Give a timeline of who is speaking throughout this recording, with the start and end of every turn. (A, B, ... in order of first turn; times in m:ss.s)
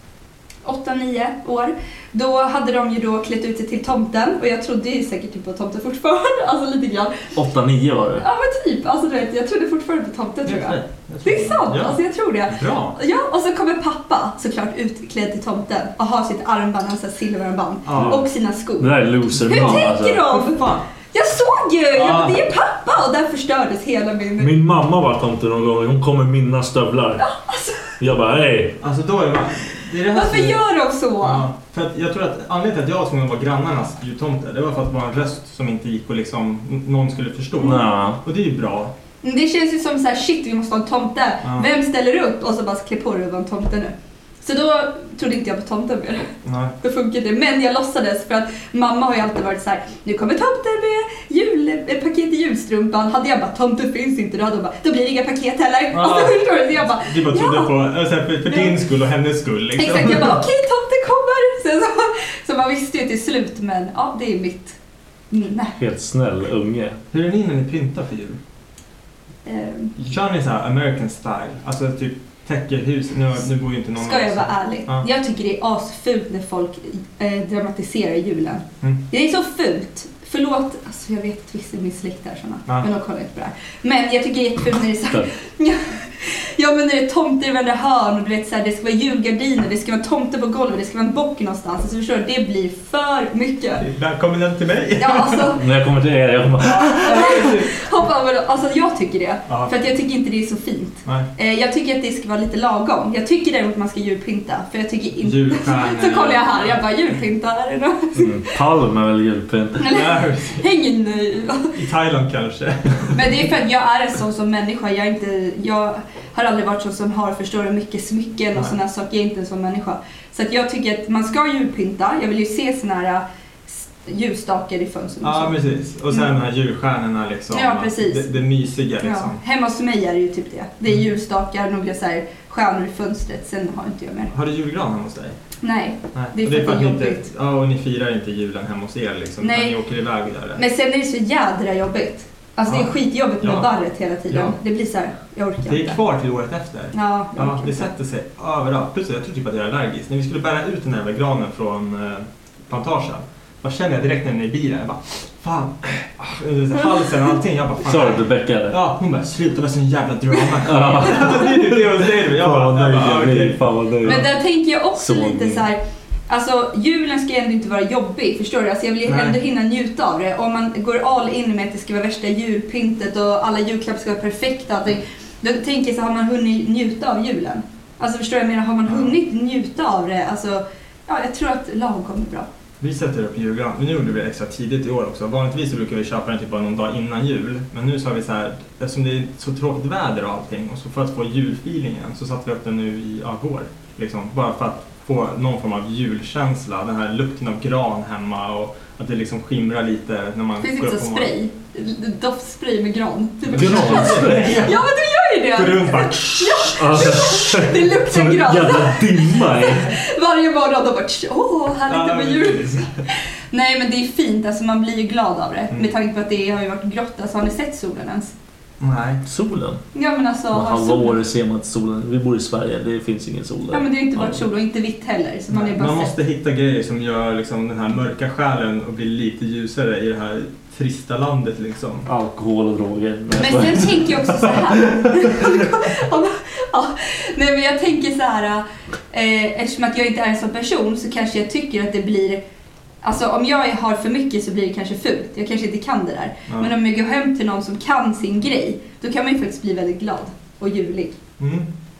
0:00.6-0:07.3 A
0:07.3-0:08.2 B
0:08.2-0:20.6 A
0:10.4-0:12.0 C
0:12.5-0:13.0 C
0:17.8-0:18.2 C
0:17.9-0:18.2 B
0:18.8-0:20.3 B
0:19.4-0:20.8 C
0:21.1-0:24.5 A
0:21.9-0:22.4 C
0:24.4-0:27.2 B
0:27.2-0:28.0 A
0:28.0-0:28.8 B
0:28.8-0:30.6 C
0:30.1-0:31.5 A
0:31.2-0:38.9 C
0:37.6-0:38.2 B
0:39.2-0:57.7 A
0:46.4-0:46.7 C
0:55.9-1:00.4 C
0:58.4-0:58.8 A
0:59.8-1:04.8 A
1:05.3-1:05.8 A
1:05.8-1:07.0 B
1:07.1-1:08.4 C
1:09.4-1:09.9 A
1:10.0-1:15.1 C
1:14.0-1:33.8 A
1:33.8-1:35.5 C
1:35.0-1:35.6 A
1:35.6-1:37.4 B
1:36.6-1:37.7 C
1:37.0-1:48.3 A
1:39.5-1:39.7 C
1:45.2-1:46.8 C
1:48.1-1:49.9 B
1:49.8-1:51.7 A
1:49.8-1:50.6 C
1:51.7-1:53.4 C
1:53.1-2:05.6 A
2:05.2-2:09.4 C
2:07.5-2:08.4 A
2:09.0-2:14.3 A
2:14.3-2:15.4 C
2:15.6-2:17.3 A
2:16.1-2:20.6 C
2:19.4-2:19.8 A
2:20.5-2:26.0 A
2:22.7-2:23.7 C
2:24.3-2:24.6 C
2:25.7-2:44.3 C
2:26.9-2:27.9 A
2:37.8-2:38.8 B
2:40.6-2:44.3 B
2:44.0-3:02.5 A
2:45.0-2:45.6 B
2:49.1-2:49.4 C
2:58.9-2:59.1 C
3:02.8-3:21.3 C
3:20.6-3:32.7 A
3:23.5-3:24.9 C
3:23.5-3:24.6 B
3:25.5-3:26.8 C
3:26.8-3:29.9 B
3:31.9-3:32.9 C
3:33.5-3:38.3 A
3:38.8-3:39.2 C
3:39.2-3:39.8 B
3:39.9-3:41.2 A
3:40.5-3:43.8 B
3:43.7-3:46.1 A
3:45.5-3:52.1 C
3:52.1-3:55.5 B
3:53.4-4:02.4 A
4:03.0-4:11.2 A
4:11.4-4:11.7 C